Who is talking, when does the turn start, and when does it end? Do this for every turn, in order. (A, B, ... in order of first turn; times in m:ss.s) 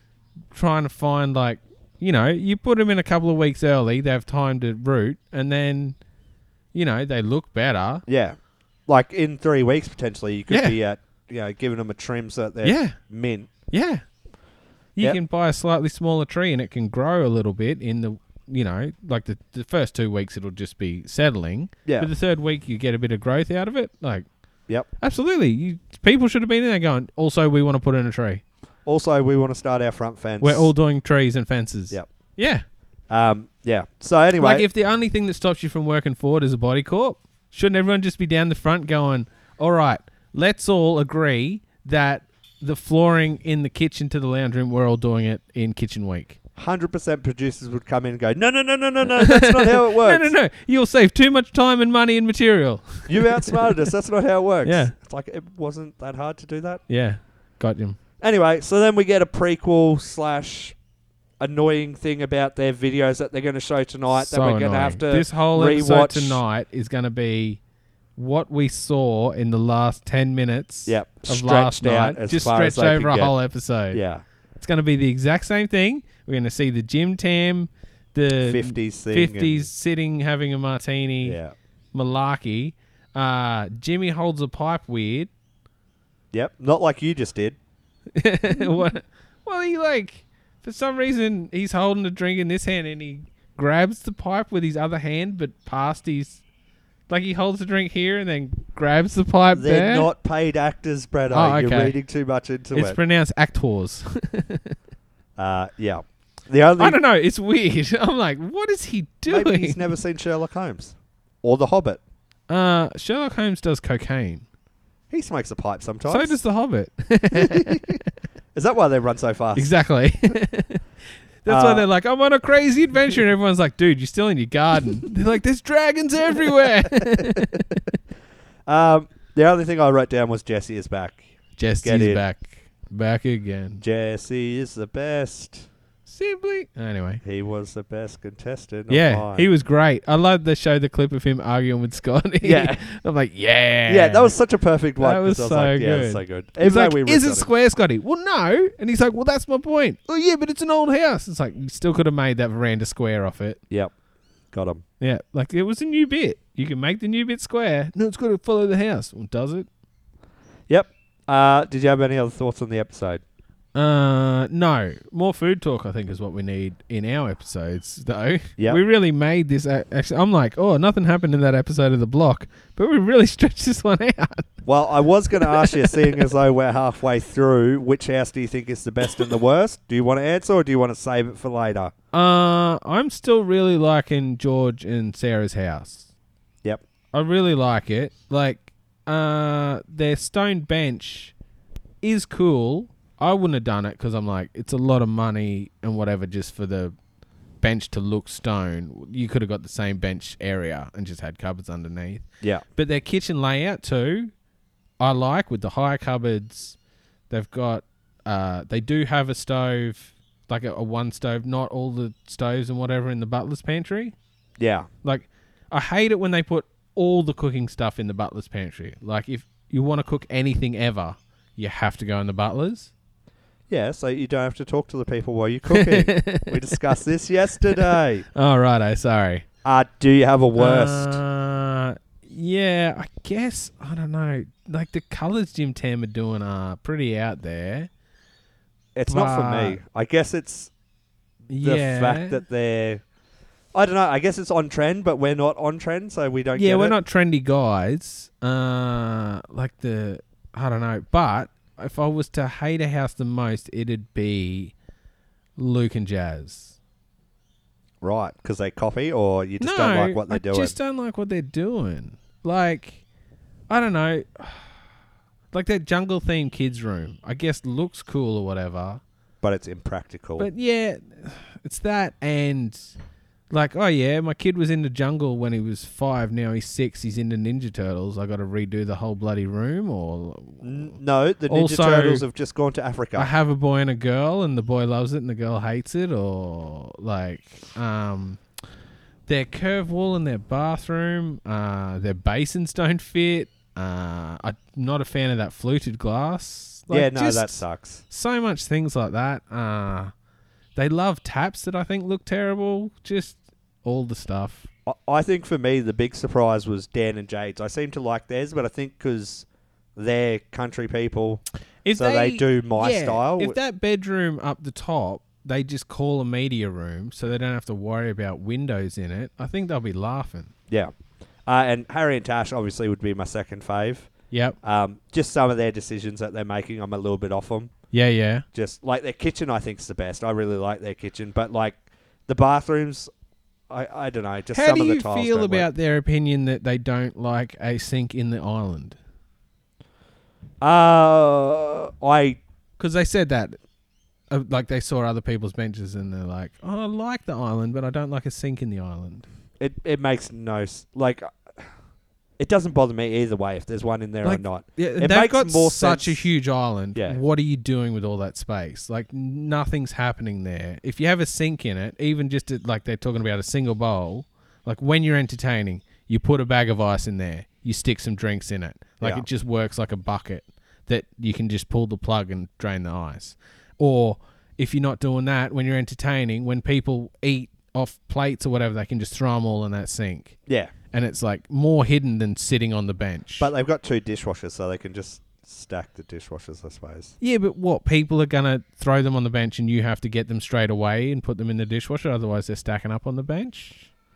0:00.5-0:06.0 A
0:06.7-0:08.0 A
0:08.1-0:13.5 B
0:10.5-0:10.8 A
0:12.6-0:13.0 A
0:13.7-0:14.0 A
0:15.0-0:24.3 A
0:25.0-0:28.4 A
0:28.9-0:30.7 B
0:30.4-0:32.6 A
0:33.1-0:34.7 B
0:34.4-0:46.4 A
0:46.6-0:50.3 B
0:49.2-0:53.7 A
0:53.1-0:56.8 B
0:54.6-0:54.9 A
0:56.9-0:58.0 A
0:58.2-1:00.8 B
1:01.4-1:06.4 B
1:04.1-1:07.6 A
1:08.2-1:14.0 A
1:10.9-1:13.3 B
1:13.9-1:14.2 B
1:14.6-1:21.4 A
1:18.4-1:19.7 B
1:21.2-1:21.6 B
1:21.9-1:25.3 A
1:26.3-1:27.6 B
1:28.2-1:36.4 A
1:37.1-1:40.1 A
1:39.5-1:43.0 B
1:41.3-1:42.0 A
1:42.7-1:44.8 A
1:45.4-1:47.0 B
1:46.8-1:49.8 A
1:49.3-1:52.0 B
1:52.5-1:54.4 A
1:55.1-1:56.4 B
1:56.1-1:58.0 A
1:57.3-1:58.0 B
1:58.5-1:59.7 B
1:59.6-2:00.8 A
2:01.4-2:07.9 A
2:01.5-2:01.9 B
2:07.0-2:07.4 B
2:08.7-2:11.3 B
2:11.6-2:13.8 A
2:11.8-2:12.2 B
2:13.8-2:15.7 B
2:16.1-2:17.2 A
2:17.2-2:19.5 B
2:18.9-2:24.4 A
2:22.4-2:22.8 B
2:23.9-2:27.5 B
2:25.0-2:33.6 A
2:34.5-2:34.8 B
2:35.0-2:39.7 A
2:40.7-2:43.2 B
2:43.8-2:54.6 A
2:54.6-3:01.9 B
2:55.4-2:56.1 A
3:02.1-3:06.1 A
3:07.1-3:11.3 A
3:12.0-3:17.0 A
3:17.6-3:24.3 A
3:25.0-3:26.8 A
3:27.3-3:34.2 A
3:34.6-3:34.9 B
3:35.0-3:42.9 A
3:43.7-3:48.3 B
3:45.7-3:46.8 A
3:48.4-3:49.5 A
3:49.6-3:51.2 B
3:50.6-3:57.9 A
3:59.0-4:00.7 B
3:59.1-3:59.8 A
4:01.5-4:02.4 A
4:01.6-4:03.0 B
4:03.7-4:07.0 B
4:06.6-4:14.7 A
4:15.6-4:16.8 A
4:18.0-4:20.8 B
4:19.6-4:23.0 A
4:23.7-4:24.7 A
4:25.5-4:29.0 A
4:29.4-4:30.5 B
4:30.4-4:32.9 A
4:33.5-4:41.0 A
4:40.6-4:43.3 B
4:41.5-4:42.3 A
4:43.2-4:48.4 A
4:49.3-5:00.1 A
4:56.9-4:58.0 B
5:00.8-5:04.7 A
5:04.9-5:13.6 B
5:11.8-5:20.5 A
5:21.5-5:24.1 B
5:24.3-5:24.6 A
5:24.6-5:27.7 B
5:27.9-5:28.4 A
5:28.5-5:33.1 B
5:33.7-5:35.7 B
5:34.5-5:39.0 A
5:40.6-5:42.4 B
5:42.8-5:43.6 A
5:44.3-5:49.3 A
5:49.6-5:51.6 B
5:52.4-5:56.3 B
5:54.2-6:20.4 A
5:57.0-5:57.2 B
6:20.5-6:20.7 B
6:20.9-6:23.5 A
6:23.4-6:27.2 B
6:27.2-6:33.9 A